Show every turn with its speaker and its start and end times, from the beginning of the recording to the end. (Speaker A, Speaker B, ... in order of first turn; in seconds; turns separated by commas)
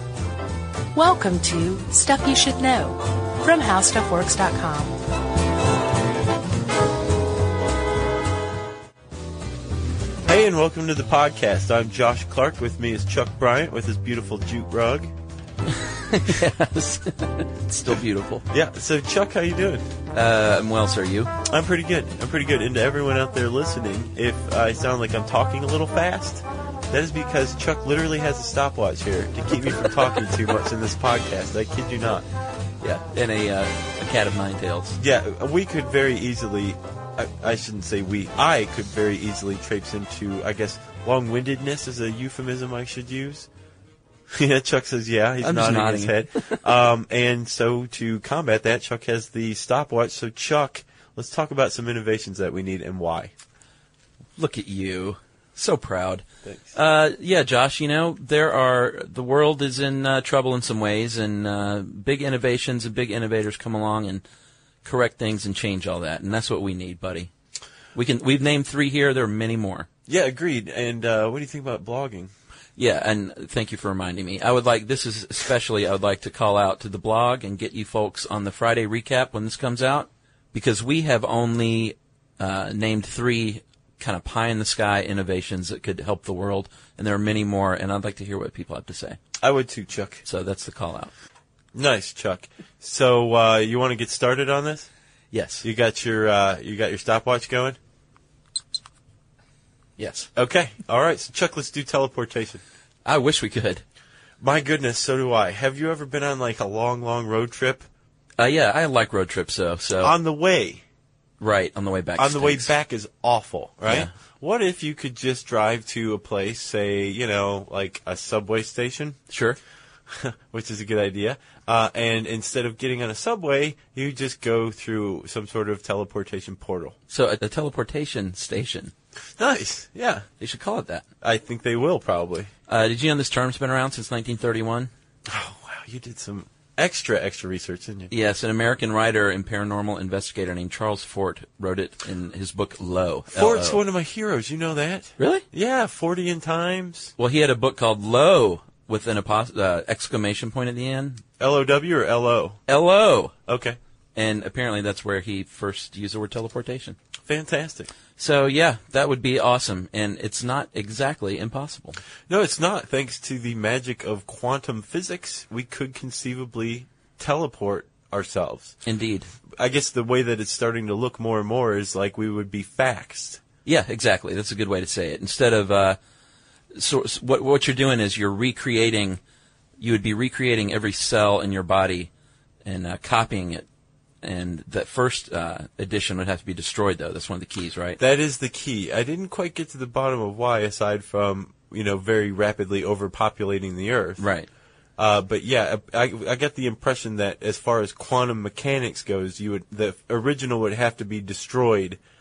Speaker A: 0.9-5.0, Speaker B: 10.3-15.1, Speaker C: 15.7-18.4, Speaker B: 18.5-19.9, Speaker C: 20.1-21.3, Speaker B: 21.4-32.2, Speaker C: 32.8-35.0, Speaker B: 35.0-43.5, Speaker B: 44.3-53.3, Speaker C: 45.4-46.6, Speaker C: 54.4-64.2, Speaker B: 56.5-56.7, Speaker C: 64.8-67.3, Speaker C: 67.9-69.9, Speaker B: 70.1-72.3, Speaker C: 72.8-89.2, Speaker B: 89.4-90.2, Speaker C: 90.2-91.1, Speaker B: 91.7-94.9, Speaker C: 95.3-95.7, Speaker B: 95.6-97.8, Speaker C: 100.0-100.3, Speaker B: 100.4-102.6, Speaker C: 103.0-103.8, Speaker B: 104.4-107.8, Speaker C: 108.4-110.2, Speaker B: 110.0-110.8, Speaker C: 111.4-112.7, Speaker B: 112.2-119.2, Speaker C: 113.9-114.1, Speaker C: 119.3-119.6, Speaker B: 120.1-127.0, Speaker C: 127.1-128.9, Speaker B: 129.4-130.3, Speaker C: 130.4-131.1, Speaker B: 131.2-132.5, Speaker C: 132.7-134.9, Speaker B: 135.3-138.1, Speaker C: 138.1-143.8, Speaker B: 143.3-147.1, Speaker C: 145.2-145.4, Speaker C: 147.2-151.2, Speaker B: 151.4-152.6, Speaker C: 152.7-153.3, Speaker B: 153.5-153.8, Speaker C: 154.2-157.0, Speaker B: 157.3-157.9, Speaker C: 158.2-162.0, Speaker B: 162.3-168.8, Speaker C: 168.8-169.3, Speaker B: 169.5-173.4, Speaker C: 173.7-176.0, Speaker C: 176.7-179.2, Speaker C: 179.8-182.1, Speaker C: 182.7-183.7, Speaker C: 184.2-188.0, Speaker B: 188.0-194.3, Speaker C: 194.2-194.5, Speaker B: 195.0-202.0